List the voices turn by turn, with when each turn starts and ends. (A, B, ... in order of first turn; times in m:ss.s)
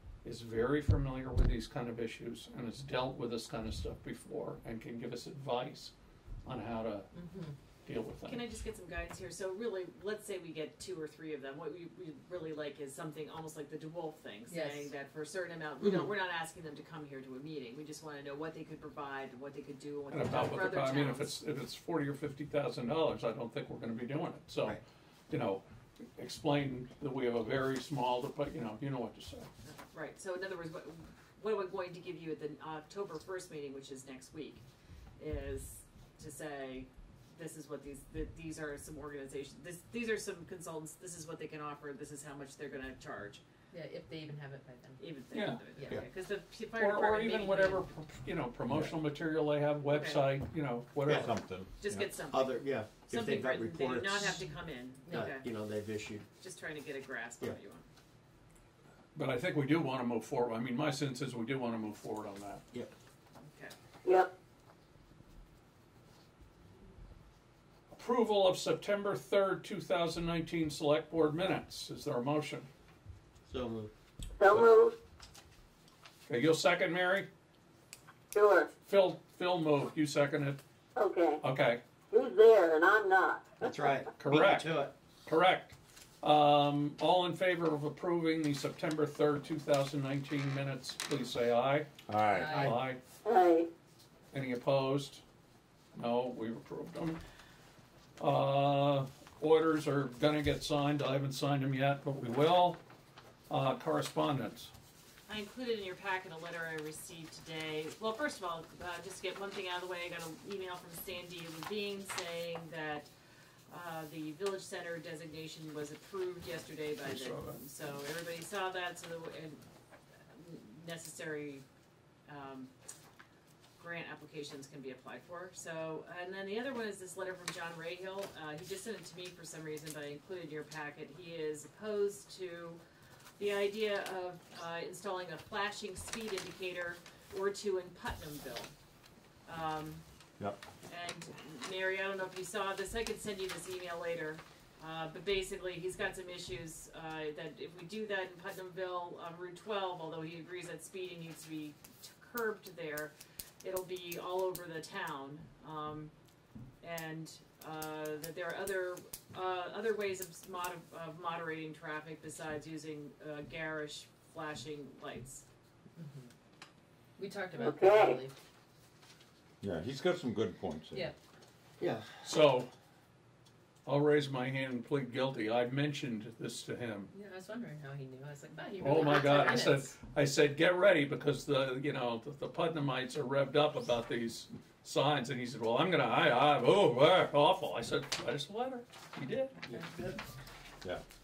0:00.2-0:05.9 A
0:06.4-0:07.1 A
0:07.1-0:07.6 B
0:07.8-0:08.4 A
0:08.2-0:21.3 C
0:14.5-0:14.9 B
0:15.8-0:16.1 D
0:20.1-0:25.6 A
0:26.2-0:29.5 A
0:29.6-0:34.6 C
0:35.2-0:43.4 C
0:43.7-0:45.2 B
0:45.0-0:47.9 C
0:45.3-0:45.7 A
0:45.7-0:46.1 B
0:46.8-0:51.3 A
0:48.7-0:48.9 D
0:49.9-0:50.2 C
0:51.0-0:51.4 D
0:51.0-0:52.1 E
0:51.8-0:55.5 C
0:52.3-0:54.4 D
0:54.2-0:55.4 B
0:55.1-0:56.3 D
0:56.4-0:57.8 C
0:59.1-1:02.6 A
1:03.4-1:03.7 C
1:04.0-1:04.3 F
1:07.9-1:12.7 A
1:13.5-1:13.9 D
1:14.4-1:14.9 F
1:16.3-1:17.3 A
1:18.3-1:18.7 F
1:18.9-1:20.6 A
1:21.0-1:21.4 F
1:21.4-1:21.8 A
1:22.1-1:24.0 F
1:23.6-1:24.9 D
1:24.2-1:24.7 A
1:25.2-1:31.9 A
1:32.1-1:32.7 E
1:32.3-1:32.8 B
1:32.5-1:33.0 A
1:33.2-1:33.7 F
1:34.3-1:35.2 A
1:35.9-1:37.2 A
1:38.2-1:42.8 A
1:43.5-1:44.7 A
1:45.3-1:53.1 C
1:53.7-1:59.6 C
1:57.0-1:57.6 A
2:00.3-2:01.6 C
2:02.3-2:02.7 C
2:03.8-2:12.8 C
2:13.4-2:18.7 C
2:19.4-2:20.0 C
2:20.9-2:36.1 C
2:36.8-2:45.4 C
2:46.0-2:46.3 B
2:47.2-2:48.4 B
2:47.6-2:48.2 F
2:49.6-2:51.1 E
2:51.8-2:52.1 D
2:52.2-2:52.7 A
2:53.8-2:57.1 A
2:57.1-2:59.9 B
2:58.8-3:09.6 A
3:09.7-3:09.9 D
3:09.7-3:10.1 B